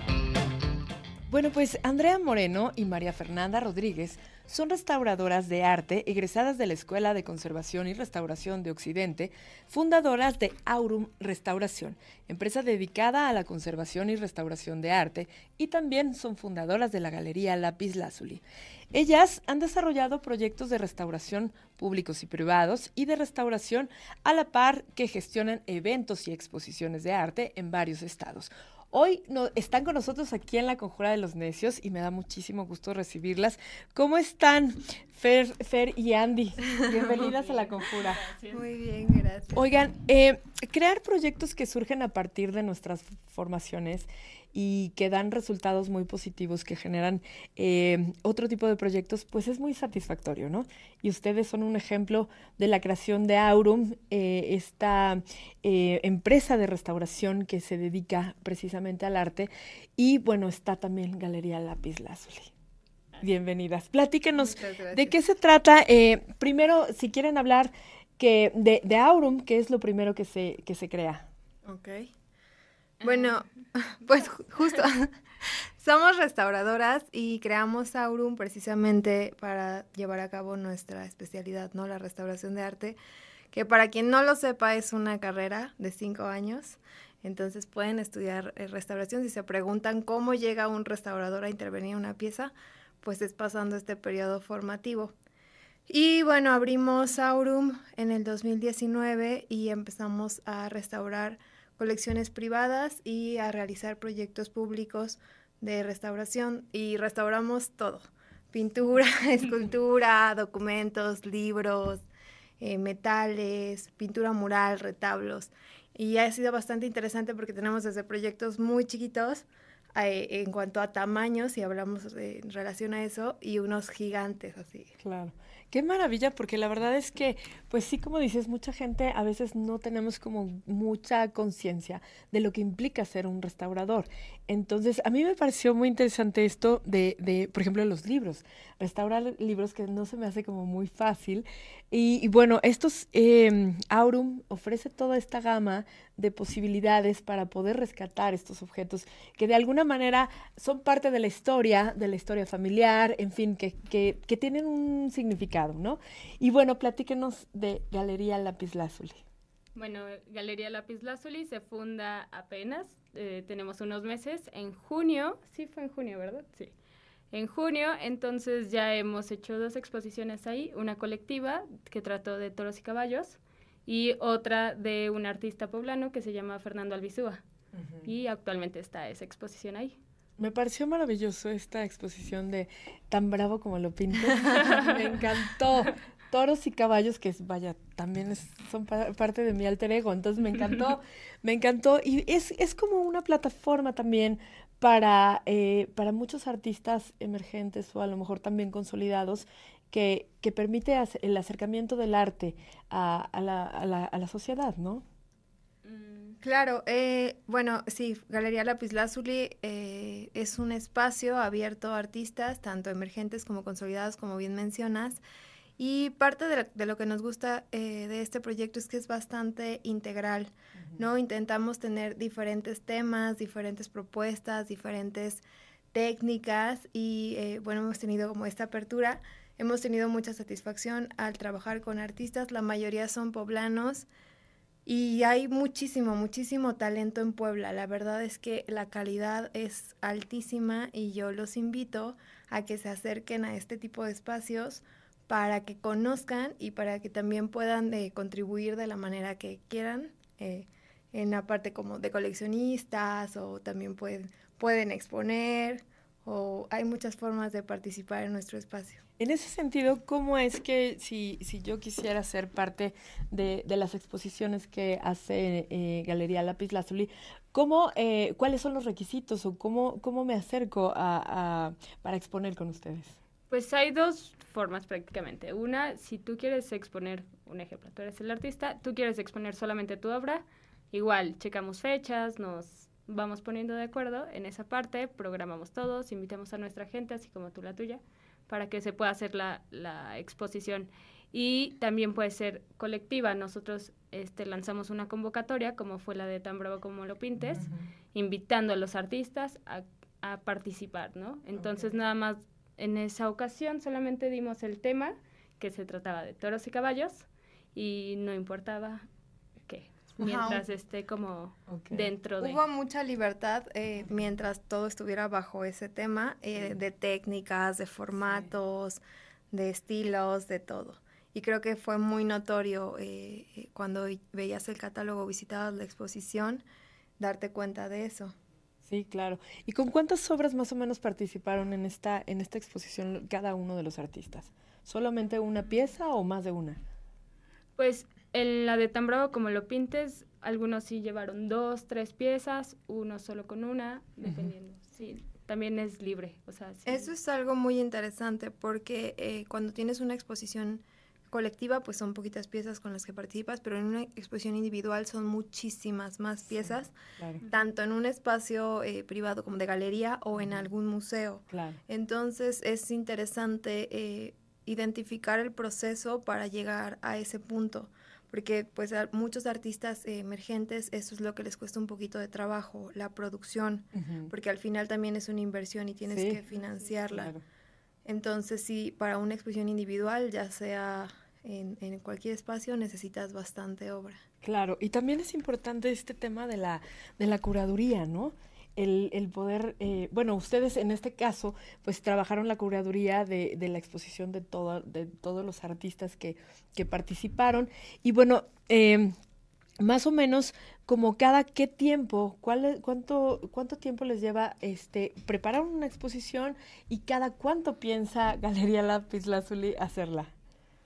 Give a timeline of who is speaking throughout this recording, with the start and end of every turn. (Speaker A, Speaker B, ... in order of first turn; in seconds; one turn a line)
Speaker A: 1.3-38.2
Speaker B: 37.0-38.6
Speaker C: 38.5-39.6
Speaker A: 39.5-62.5
Speaker A: 63.2-71.2
Speaker C: 64.4-65.2
Speaker C: 71.6-72.0
Speaker B: 73.0-73.4
Speaker C: 73.0-73.4
Speaker C: 74.0-75.0
Speaker C: 75.8-83.0
Speaker C: 83.5-95.1
Speaker C: 95.9-112.0
Speaker C: 112.6-124.9
Speaker A: 125.0-159.2
Speaker B: 159.7-166.7
Speaker B: 167.3-177.4
Speaker A: 177.7-178.1
Speaker B: 178.0-180.0
Speaker A: 180.4-205.0
Speaker B: 184.5-184.9
Speaker B: 205.8-206.4
Speaker C: 206.4-215.2
Speaker C: 215.8-225.4
Speaker A: 220.8-221.1
Speaker C: 225.9-234.1
Speaker C: 234.8-259.0
Speaker A: 259.2-273.2
Speaker B: 273.5-309.1
Speaker A: 297.4-297.8
Speaker A: 301.5-301.9
Speaker B: 309.7-312.6
Speaker C: 310.2-310.6
Speaker A: 311.7-312.1
Speaker C: 312.4-319.0
Speaker C: 319.5-326.6
Speaker C: 327.2-328.3
Speaker A: 328.8-336.8
Speaker B: 337.8-347.1
Speaker C: 346.9-356.9
Speaker A: 357.2-357.4
Speaker C: 357.5-377.3
Speaker A: 361.5-361.8
Speaker A: 373.9-374.3
Speaker A: 376.1-376.4
Speaker A: 377.1-377.4
Speaker C: 378.0-384.2
Speaker A: 384.4-399.1
Speaker A: 399.8-410.3